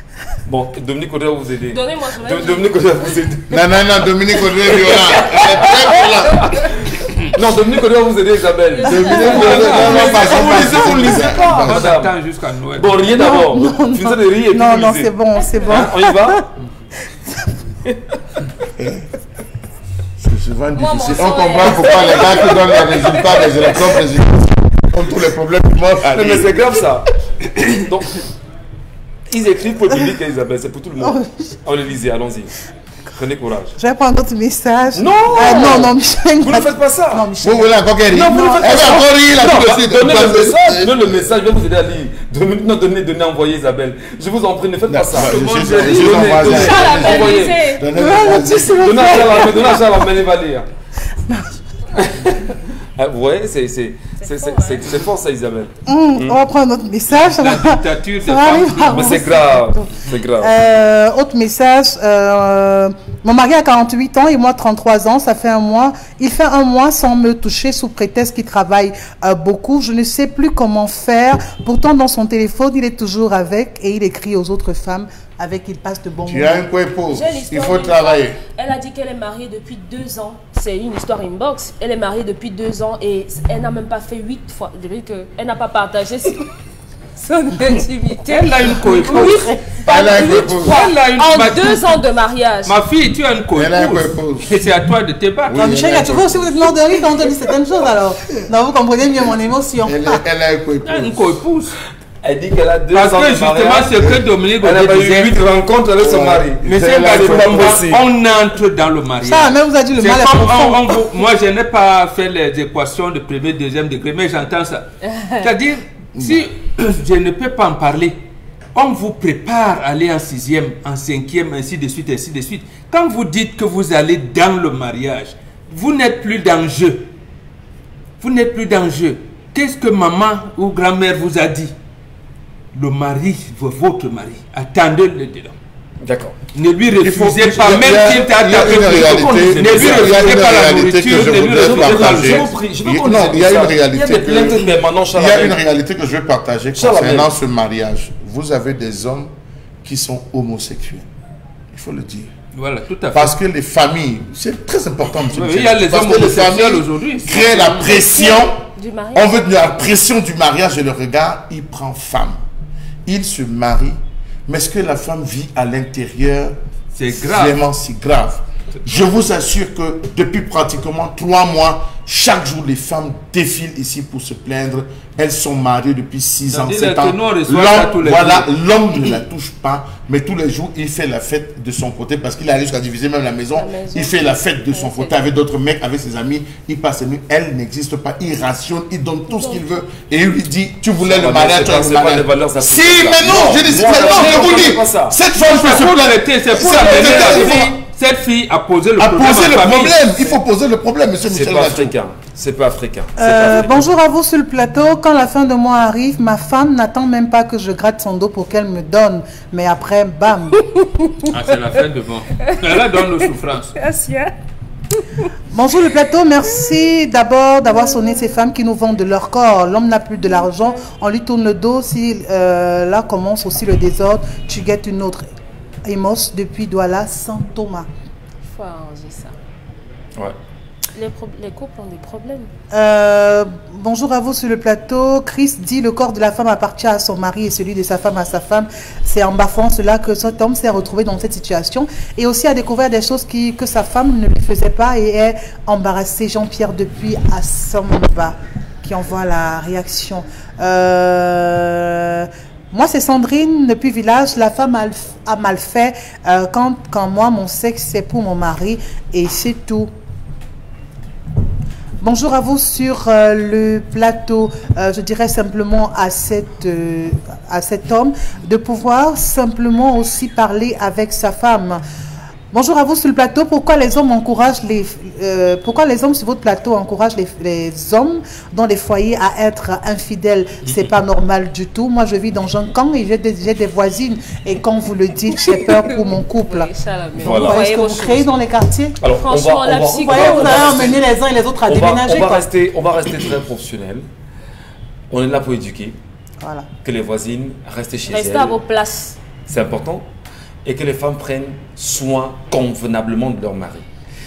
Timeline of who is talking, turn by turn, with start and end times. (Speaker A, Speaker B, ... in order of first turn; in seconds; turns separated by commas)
Speaker A: 0.5-3.8, Speaker B: 1.7-2.7, Speaker C: 3.5-6.6, Speaker A: 4.3-12.2, Speaker B: 8.7-10.7, Speaker C: 8.9-11.9, Speaker D: 9.2-10.3, Speaker D: 11.2-13.3, Speaker A: 12.8-15.1, Speaker E: 13.1-16.4, Speaker A: 15.7-16.5, Speaker E: 17.3-17.5, Speaker C: 18.6-19.1, Speaker C: 20.2-26.6, Speaker B: 20.8-24.0, Speaker A: 26.1-28.2, Speaker A: 29.3-32.5, Speaker E: 31.0-31.6, Speaker A: 33.1-33.8, Speaker E: 33.8-39.0, Speaker A: 34.9-37.2, Speaker C: 37.4-41.2, Speaker A: 38.1-47.6, Speaker C: 44.9-49.4, Speaker D: 45.1-46.7, Speaker B: 46.5-47.9, Speaker E: 47.9-49.9, Speaker A: 48.8-50.7, Speaker E: 51.2-51.6, Speaker A: 51.9-56.4, Speaker B: 54.2-54.8, Speaker E: 55.9-76.7, Speaker D: 57.1-59.5, Speaker A: 58.9-60.5, Speaker C: 76.2-78.4, Speaker B: 77.1-86.5, Speaker B: 87.2-92.8, Speaker D: 88.3-89.5, Speaker E: 88.9-89.8, Speaker C: 89.9-90.8, Speaker D: 90.1-92.0, Speaker D: 92.7-96.1, Speaker C: 93.5-94.6, Speaker C: 95.5-96.8, Speaker E: 95.6-100.2, Speaker C: 99.8-101.4, Speaker D: 100.8-101.8, Speaker A: 102.2-104.1, Speaker D: 102.9-105.4, Speaker A: 104.6-108.0, Speaker C: 106.0-107.7, Speaker D: 106.6-114.9, Speaker E: 109.2-111.2, Speaker B: 115.1-115.4, Speaker D: 115.4-118.2, Speaker C: 116.2-116.5, Speaker D: 118.7-127.0, Speaker D: 128.2-131.7, Speaker D: 132.7-135.5, Speaker A: 136.0-136.4, Speaker D: 136.5-142.5, Speaker C: 137.0-149.3, Speaker A: 139.8-140.1, Speaker A: 141.5-145.6, Speaker A: 146.8-147.3, Speaker C: 149.8-151.1, Speaker C: 151.7-152.3, Speaker D: 152.5-153.3, Speaker C: 153.1-158.6, Speaker D: 155.2-158.0, Speaker B: 157.9-159.3, Speaker C: 159.2-162.4, Speaker C: 163.1-166.6, Speaker D: 166.9-167.6, Speaker C: 167.1-197.8, Speaker D: 176.5-178.5, Speaker B: 183.5-185.2, Speaker A: 191.0-195.2, Speaker D: 195.4-200.0, Speaker A: 196.6-197.7, Speaker C: 199.0-201.9, Speaker A: 201.3-203.9, Speaker E: 203.2-210.6, Speaker B: 210.5-211.5, Speaker D: 211.3-213.7, Speaker B: 212.4-214.3, Speaker B: 214.9-215.3, Speaker E: 215.5-225.3, Speaker B: 217.7-218.2, Speaker B: 220.2-220.9, Speaker E: 225.9-227.9, Speaker B: 228.4-229.3, Speaker B: 230.9-232.5, Speaker E: 232.7-259.9, Speaker E: 262.0-271.8, Speaker E: 272.5-289.0, Speaker D: 280.6-280.9, Speaker B: 285.3-288.3, Speaker A: 287.2-287.6, Speaker A: 289.0-291.0, Speaker B: 289.2-291.0, Speaker E: 290.0-292.5, Speaker A: 291.7-294.1, Speaker A: 295.1-296.0, Speaker E: 296.4-296.7, Speaker A: 296.8-298.6, Speaker B: 298.1-299.2, Speaker A: 299.5-300.1, Speaker A: 300.6-303.9